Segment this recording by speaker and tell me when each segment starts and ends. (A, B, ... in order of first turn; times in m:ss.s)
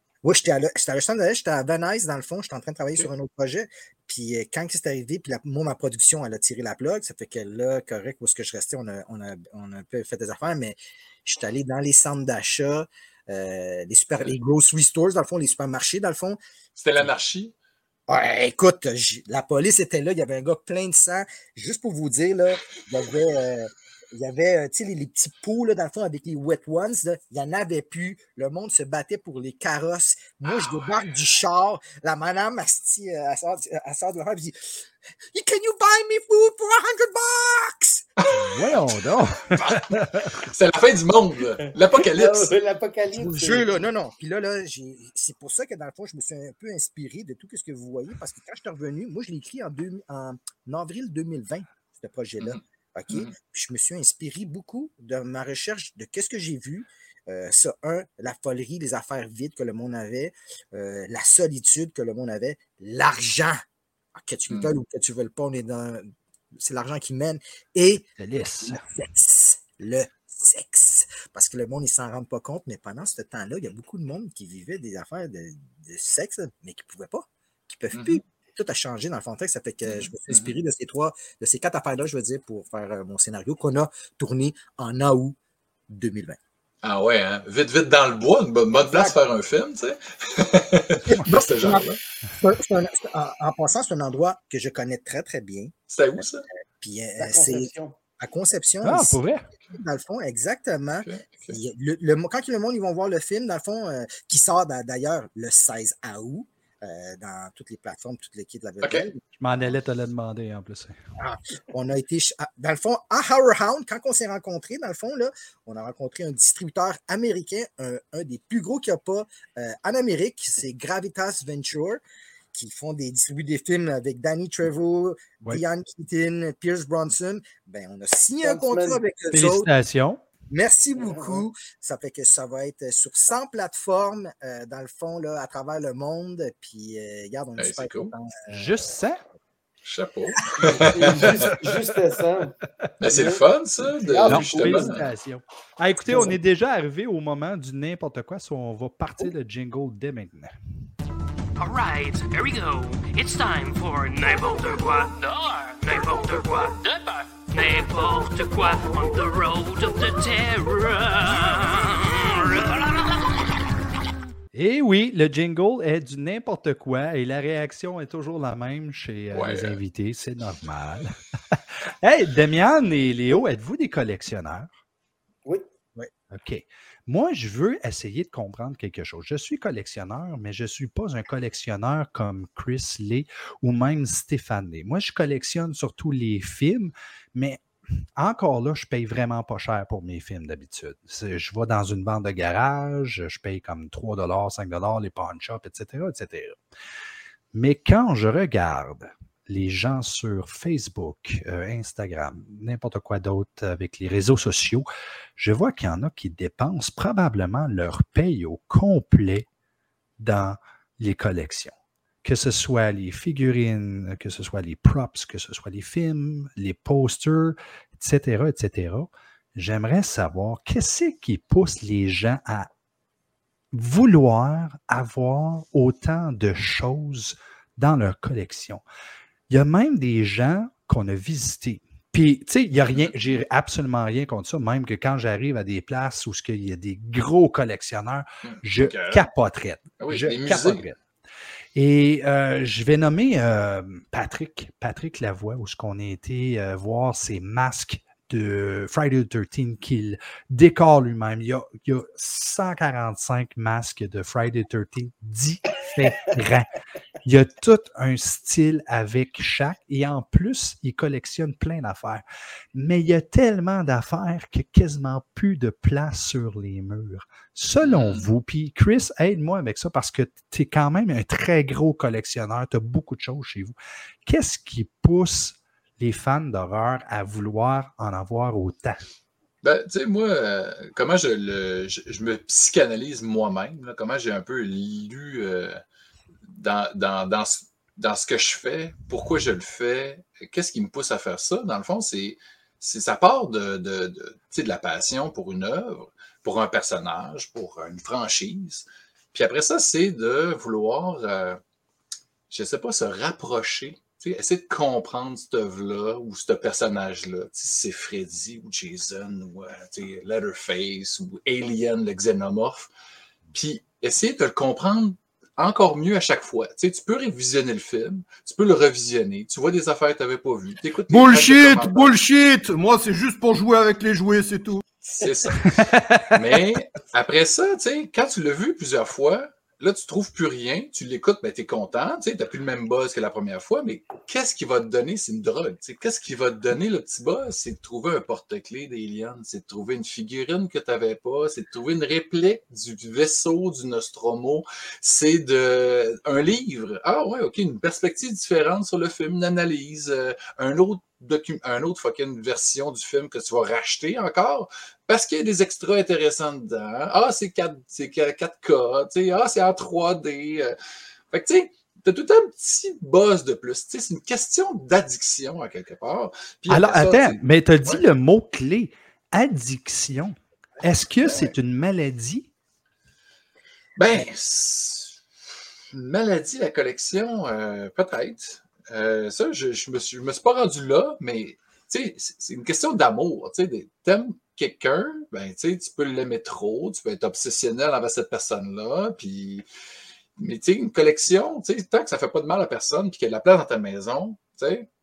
0:00.2-0:16.4 A
0:16.8-0:17.5 B
0:18.1-0:38.1 A
0:38.3-0:40.3 C
0:39.6-0:42.5 B
0:42.0-0:43.7 D
0:43.1-1:03.6 A
0:52.4-0:53.3 B
1:04.1-1:08.1 A
1:08.2-1:08.8 C
1:08.6-1:25.4 A
1:17.9-1:18.2 B
1:19.9-1:20.5 B
1:25.9-1:26.4 A
1:26.8-1:32.0 B
1:28.7-1:29.2 D
1:31.0-1:31.3 C
1:31.1-1:36.2 A
1:35.9-1:36.4 B
1:36.8-1:49.7 A
1:37.2-1:37.9 D
1:38.8-1:39.5 C
1:41.0-1:41.6 B
1:49.4-1:51.0 C
1:51.2-2:02.0 A
2:02.5-2:09.7 A
2:08.4-2:09.0 D
2:09.3-2:10.2 C
2:10.5-2:18.7 A
2:11.0-2:11.4 D
2:17.6-2:18.1 B
2:18.5-2:19.2 C
2:19.8-2:21.5 B
2:20.6-2:22.6 D
2:23.0-2:25.0 B
2:23.1-2:23.4 D
2:24.0-2:24.9 D
2:24.2-2:30.5 C
2:26.1-2:26.3 D
2:31.6-2:43.0 E
2:44.5-2:54.7 C
2:49.3-2:49.8 B
2:56.3-3:07.6 C
3:08.2-3:16.6 C
3:17.5-3:29.5 C
3:30.2-3:42.7 C
3:43.7-3:48.8 C
3:49.5-4:01.0 C
3:58.4-3:59.2 B
4:00.0-4:00.8 B
4:01.8-4:16.7 C
4:17.2-4:33.7 C
4:27.8-4:28.3 B
4:34.2-4:39.0 C
4:39.6-4:45.8 B
4:46.5-5:01.6 B
5:02.5-5:12.9 B
5:13.5-5:22.2 B
5:21.1-5:24.8 F
5:25.2-5:25.8 B
5:25.8-5:26.4 C
5:26.3-6:00.8 B
6:01.3-6:08.0 B
6:06.7-6:12.5 C
6:11.2-6:11.5 B
6:14.0-6:15.2 B
6:15.9-6:29.6 B
6:30.4-6:34.9 B